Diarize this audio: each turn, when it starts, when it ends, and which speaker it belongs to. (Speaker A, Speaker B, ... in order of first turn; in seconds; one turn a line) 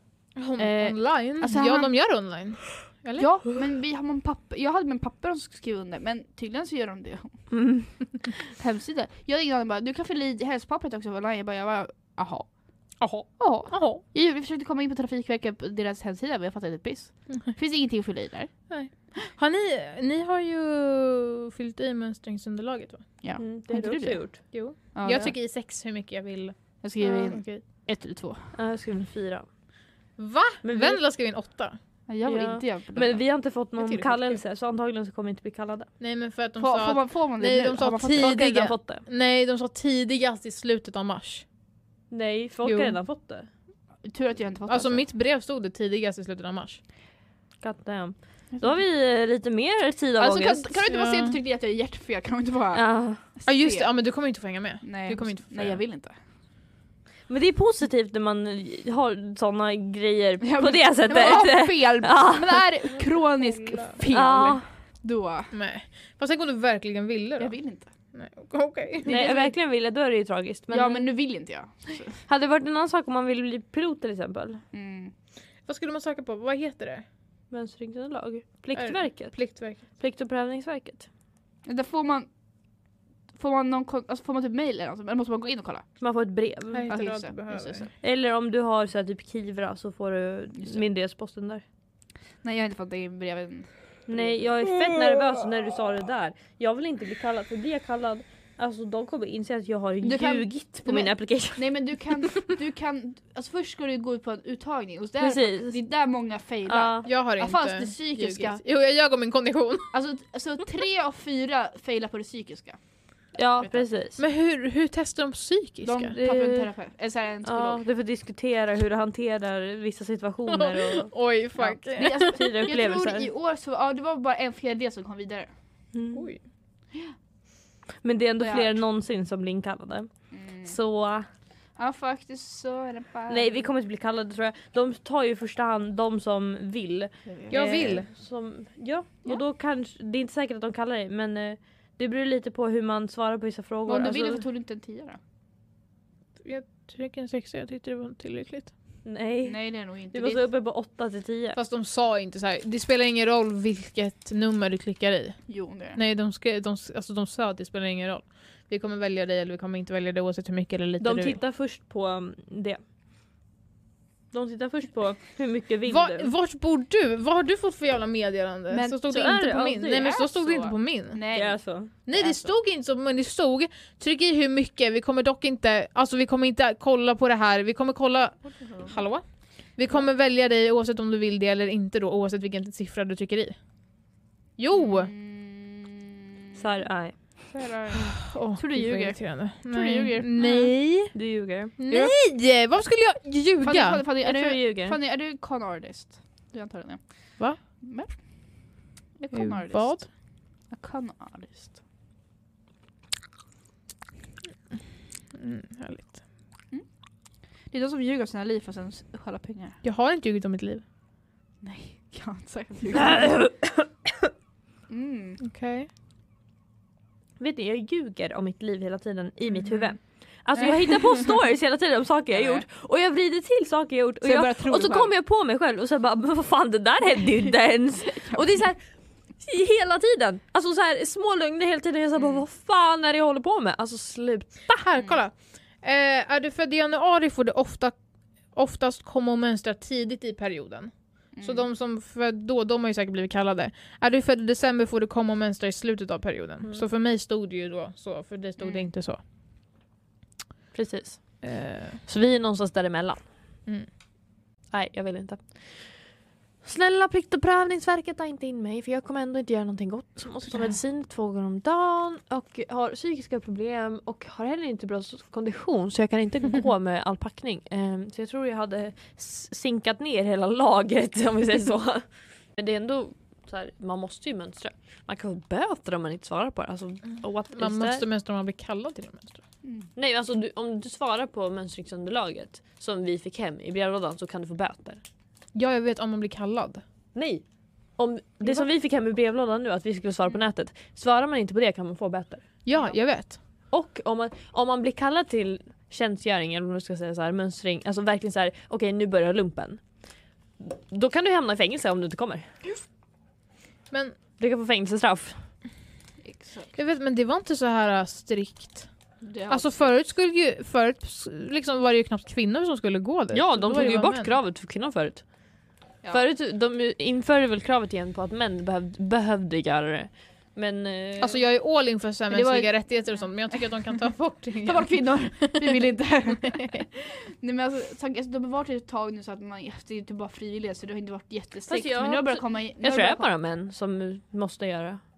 Speaker A: 0.4-3.4
Speaker B: 0.6-0.9
Speaker C: 1.4-1.9
Speaker C: 3.1-12.6
Speaker B: 7.5-7.9
Speaker A: 13.0-14.0
Speaker C: 13.4-18.5
Speaker A: 18.7-23.1
Speaker C: 23.2-25.3
Speaker B: 23.4-24.5
Speaker A: 24.5-27.6
Speaker C: 26.8-28.6
Speaker B: 28.5-29.5
Speaker A: 30.2-31.8
Speaker B: 30.6-31.0
Speaker C: 32.1-33.2
Speaker B: 32.2-35.9
Speaker A: 33.8-34.4
Speaker A: 36.0-41.4
Speaker C: 36.6-38.4
Speaker B: 38.1-39.0
Speaker B: 42.1-43.5
Speaker A: 42.6-43.0
Speaker C: 44.0-45.0
Speaker A: 44.7-46.8
Speaker B: 47.6-50.7
Speaker C: 48.5-48.8
Speaker C: 50.2-53.9
Speaker A: 50.9-51.4
Speaker B: 52.7-53.2
Speaker A: 53.4-55.8
Speaker C: 54.8-56.2
Speaker B: 57.3-62.6
Speaker C: 60.4-65.5
Speaker A: 63.1-64.0
Speaker B: 64.1-64.7
Speaker A: 65.5-67.5
Speaker C: 67.4-67.9
Speaker A: 68.1-69.2
Speaker C: 69.0-69.5
Speaker B: 69.0-71.1
Speaker C: 70.7-72.2
Speaker B: 72.3-74.6
Speaker C: 74.7-75.1
Speaker A: 75.7-77.0
Speaker B: 77.5-81.1
Speaker A: 78.7-79.9
Speaker C: 81.6-82.3
Speaker C: 83.3-86.0
Speaker B: 86.0-86.9
Speaker A: 86.7-87.9
Speaker C: 86.9-87.9
Speaker B: 88.0-91.6
Speaker C: 90.5-90.8
Speaker C: 92.4-95.5
Speaker B: 94.1-102.0
Speaker C: 100.0-108.6
Speaker B: 105.2-105.8
Speaker B: 106.7-107.1
Speaker A: 107.0-109.9
Speaker C: 109.9-112.8
Speaker B: 113.3-114.2
Speaker A: 114.2-116.2
Speaker C: 115.8-117.8
Speaker B: 116.2-116.7
Speaker B: 117.4-123.3
Speaker A: 120.5-122.3
Speaker C: 121.8-125.5
Speaker B: 125.9-126.2
Speaker A: 126.1-126.4
Speaker B: 128.0-131.3
Speaker C: 128.4-128.7
Speaker C: 130.3-130.8
Speaker C: 131.8-133.7
Speaker B: 133.3-144.4
Speaker C: 137.2-138.0
Speaker A: 137.5-138.1
Speaker C: 143.9-145.2
Speaker A: 146.4-148.7
Speaker B: 149.1-151.6
Speaker C: 149.4-150.4
Speaker A: 151.6-161.4
Speaker C: 155.5-156.0
Speaker B: 161.0-162.8
Speaker B: 164.3-166.3
Speaker A: 165.9-171.2
Speaker C: 168.7-172.5
Speaker B: 169.1-170.2
Speaker B: 171.3-171.9
Speaker A: 172.1-183.6
Speaker C: 178.5-179.0
Speaker A: 184.6-185.1
Speaker C: 184.7-186.6
Speaker B: 186.6-189.2
Speaker C: 187.5-188.3
Speaker A: 188.3-191.1
Speaker C: 189.7-190.7
Speaker B: 191.1-192.0
Speaker A: 191.8-194.0
Speaker C: 193.6-200.1
Speaker B: 194.2-195.0
Speaker A: 199.3-200.1
Speaker C: 200.7-201.8
Speaker A: 205.3-206.2
Speaker C: 207.7-209.8
Speaker A: 209.8-210.8
Speaker C: 211.6-213.5
Speaker B: 213.0-213.8
Speaker C: 214.9-215.4
Speaker A: 215.4-215.9
Speaker B: 217.4-228.8
Speaker C: 219.6-219.9
Speaker C: 220.6-221.3
Speaker C: 222.3-222.6
Speaker C: 224.2-225.1
Speaker B: 229.4-234.8
Speaker C: 232.2-232.4
Speaker A: 234.7-238.0
Speaker A: 238.5-249.2
Speaker C: 241.3-241.7
Speaker C: 248.6-248.9
Speaker B: 250.7-253.2
Speaker A: 251.4-252.0
Speaker B: 254.7-278.0
Speaker A: 277.6-279.4
Speaker B: 279.9-285.0
Speaker A: 285.5-286.8
Speaker B: 287.1-287.4
Speaker B: 287.9-292.5
Speaker C: 288.4-288.7
Speaker A: 292.6-293.4
Speaker C: 292.7-293.0
Speaker B: 293.7-299.8
Speaker B: 300.6-302.4
Speaker B: 304.4-305.4
Speaker C: 306.2-306.7
Speaker A: 306.8-308.9
Speaker C: 309.2-309.9
Speaker A: 309.5-314.3
Speaker B: 313.3-315.3
Speaker B: 316.1-321.4
Speaker A: 321.2-325.8
Speaker C: 322.3-324.0
Speaker C: 324.6-333.3
Speaker B: 331.7-335.0